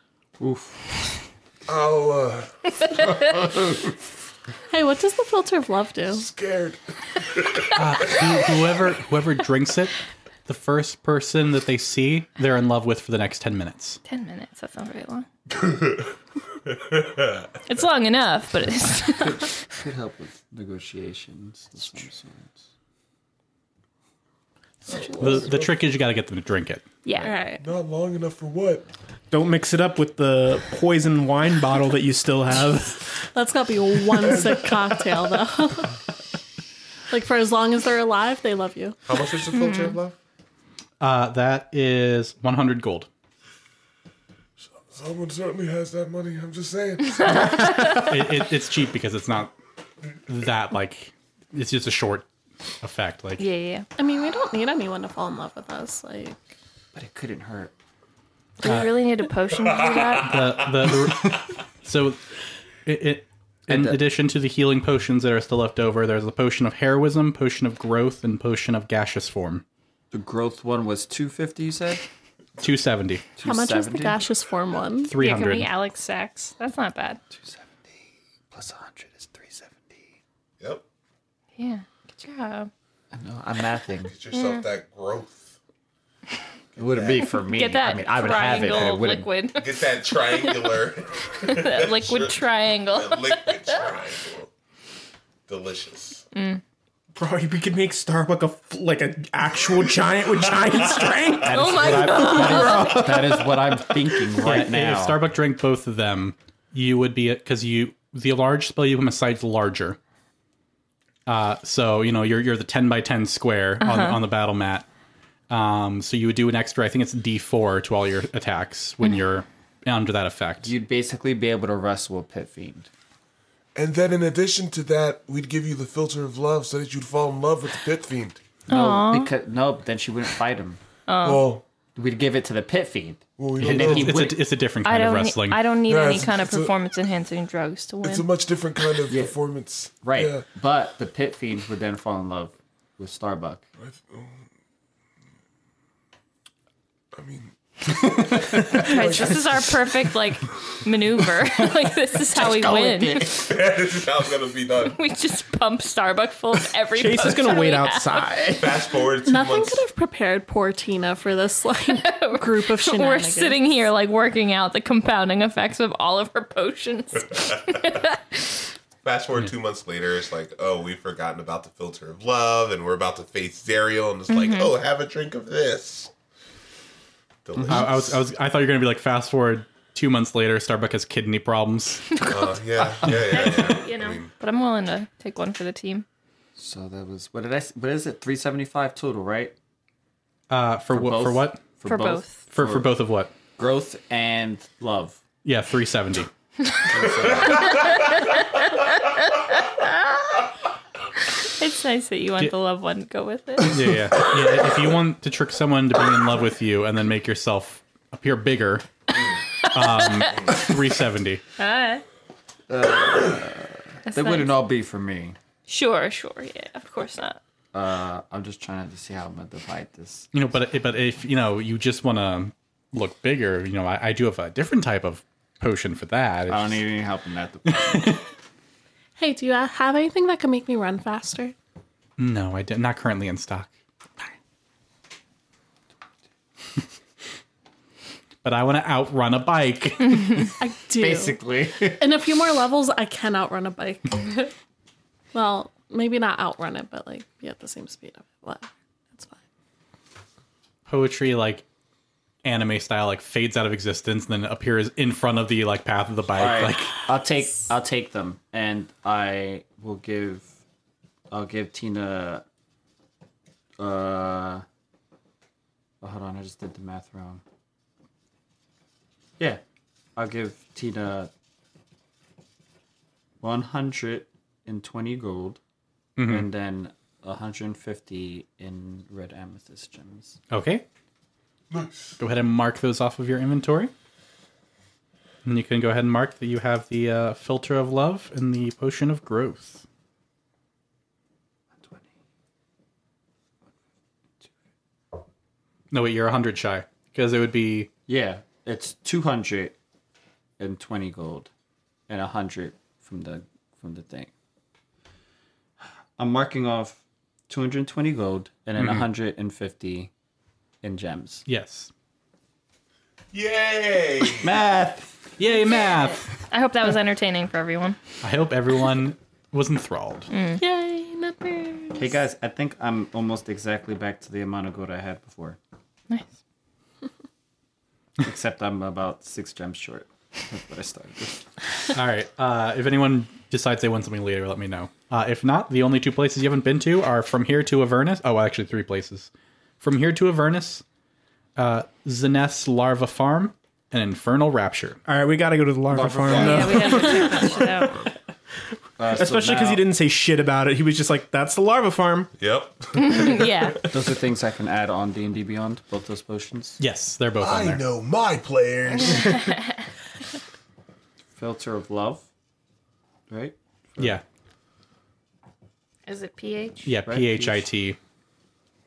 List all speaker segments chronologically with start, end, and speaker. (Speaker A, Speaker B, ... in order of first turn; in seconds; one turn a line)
Speaker A: 0.4-0.9
Speaker B: 1.7-3.0
Speaker C: 4.7-6.3
Speaker B: 6.1-6.8
Speaker D: 7.7-14.0
Speaker E: 14.1-15.3
Speaker E: 17.7-19.6
Speaker A: 19.2-22.6
Speaker B: 24.9-25.7
Speaker D: 25.2-26.9
Speaker E: 27.0-27.3
Speaker C: 27.2-27.6
Speaker B: 27.6-28.9
Speaker F: 29.3-33.2
Speaker C: 33.3-36.0
Speaker C: 37.1-39.0
Speaker G: 39.0-40.1
Speaker E: 39.6-39.9
Speaker D: 41.0-43.1
Speaker B: 44.7-48.0
Speaker D: 47.8-49.5
Speaker D: 50.3-52.3
Speaker D: 52.8-53.4
Speaker E: 53.4-53.9
Speaker C: 54.0-56.4
Speaker A: 56.9-57.7
Speaker E: 58.6-60.7
Speaker D: 58.6-59.0
Speaker D: 60.2-62.2
Speaker D: 62.8-69.6
Speaker A: 63.7-64.0
Speaker A: 70.1-72.1
Speaker D: 72.6-73.2
Speaker A: 73.4-74.3
Speaker C: 73.4-75.1
Speaker D: 75.0-75.7
Speaker E: 75.2-77.2
Speaker A: 77.3-77.9
Speaker A: 78.5-80.0
Speaker E: 81.6-82.7
Speaker A: 83.1-84.1
Speaker G: 84.1-85.5
Speaker E: 84.3-84.6
Speaker A: 86.8-89.3
Speaker G: 86.8-87.3
Speaker E: 87.3-90.8
Speaker G: 89.6-94.5
Speaker E: 91.4-93.8
Speaker G: 95.5-96.2
Speaker E: 96.3-96.6
Speaker F: 97.1-103.8
Speaker A: 101.4-105.2
Speaker E: 101.5-103.4
Speaker D: 104.4-110.0
Speaker D: 111.2-114.9
Speaker E: 113.8-114.2
Speaker D: 115.5-120.7
Speaker A: 120.6-122.9
Speaker B: 123.7-128.4
Speaker E: 128.7-129.3
Speaker A: 128.7-130.8
Speaker E: 131.1-131.5
Speaker B: 131.2-131.6
Speaker A: 131.9-134.4
Speaker B: 133.4-134.3
Speaker D: 133.6-135.6
Speaker E: 134.8-138.3
Speaker B: 135.9-136.7
Speaker B: 138.0-140.5
Speaker A: 139.1-139.4
Speaker A: 140.0-143.6
Speaker B: 143.8-144.3
Speaker B: 147.1-149.9
Speaker E: 148.7-153.3
Speaker A: 152.3-153.5
Speaker G: 153.4-155.0
Speaker E: 154.8-158.3
Speaker F: 156.9-158.8
Speaker G: 158.5-159.8
Speaker C: 159.2-163.6
Speaker E: 161.9-168.4
Speaker G: 169.0-176.1
Speaker E: 174.3-174.7
Speaker G: 177.4-178.2
Speaker A: 177.6-177.9
Speaker D: 177.7-182.1
Speaker G: 182.2-184.3
Speaker E: 182.3-186.0
Speaker A: 186.6-189.5
Speaker D: 190.5-191.6
Speaker A: 190.9-193.0
Speaker E: 191.8-192.4
Speaker D: 192.5-193.3
Speaker A: 193.6-195.2
Speaker D: 195.4-196.3
Speaker A: 196.8-197.9
Speaker E: 197.6-200.3
Speaker E: 201.3-203.8
Speaker D: 203.7-208.9
Speaker E: 209.6-210.5
Speaker D: 209.7-211.4
Speaker E: 211.6-212.0
Speaker A: 212.7-215.4
Speaker E: 214.1-214.6
Speaker E: 215.7-217.4
Speaker A: 217.7-220.3
Speaker D: 220.3-226.8
Speaker A: 226.5-228.2
Speaker D: 227.8-228.2
Speaker C: 229.2-231.5
Speaker D: 232.2-233.7
Speaker D: 238.4-240.5
Speaker C: 240.6-241.4
Speaker A: 241.0-242.0
Speaker C: 241.9-244.5
Speaker C: 245.3-249.4
Speaker D: 250.9-251.6
Speaker D: 252.4-257.1
Speaker A: 256.3-260.5
Speaker A: 261.3-262.4
Speaker A: 263.8-264.6
Speaker A: 266.0-267.4
Speaker A: 270.1-271.3
Speaker A: 273.4-275.6
Speaker D: 276.2-276.4
Speaker A: 276.2-280.4
Speaker D: 280.5-280.8
Speaker B: 281.7-282.1
Speaker D: 282.2-283.9
Speaker D: 285.4-289.8
Speaker D: 295.9-297.9
Speaker A: 298.1-299.8
Speaker A: 300.6-301.5
Speaker A: 302.1-304.3
Speaker A: 306.2-310.1
Speaker D: 308.8-309.1
Speaker A: 310.8-311.4
Speaker D: 311.4-311.9
Speaker G: 313.3-314.5
Speaker A: 314.4-315.1
Speaker D: 315.4-316.3
Speaker E: 315.7-318.0
Speaker D: 318.2-320.3
Speaker E: 320.3-320.6
Speaker C: 320.6-322.2
Speaker A: 321.9-325.6
Speaker A: 328.2-331.5
Speaker D: 331.9-339.3
Speaker D: 339.8-340.8
Speaker D: 341.6-345.0
Speaker F: 345.1-347.9
Speaker A: 345.9-347.5
Speaker E: 346.3-347.9
Speaker A: 349.0-349.8
Speaker F: 349.1-352.3
Speaker G: 352.4-353.5
Speaker E: 353.0-353.8
Speaker A: 353.9-356.8
Speaker D: 356.8-357.8
Speaker B: 357.4-359.5
Speaker E: 359.0-359.8
Speaker A: 361.4-362.3
Speaker A: 363.3-364.2
Speaker D: 364.0-364.2
Speaker E: 366.1-366.9
Speaker D: 366.9-368.0
Speaker A: 367.0-367.6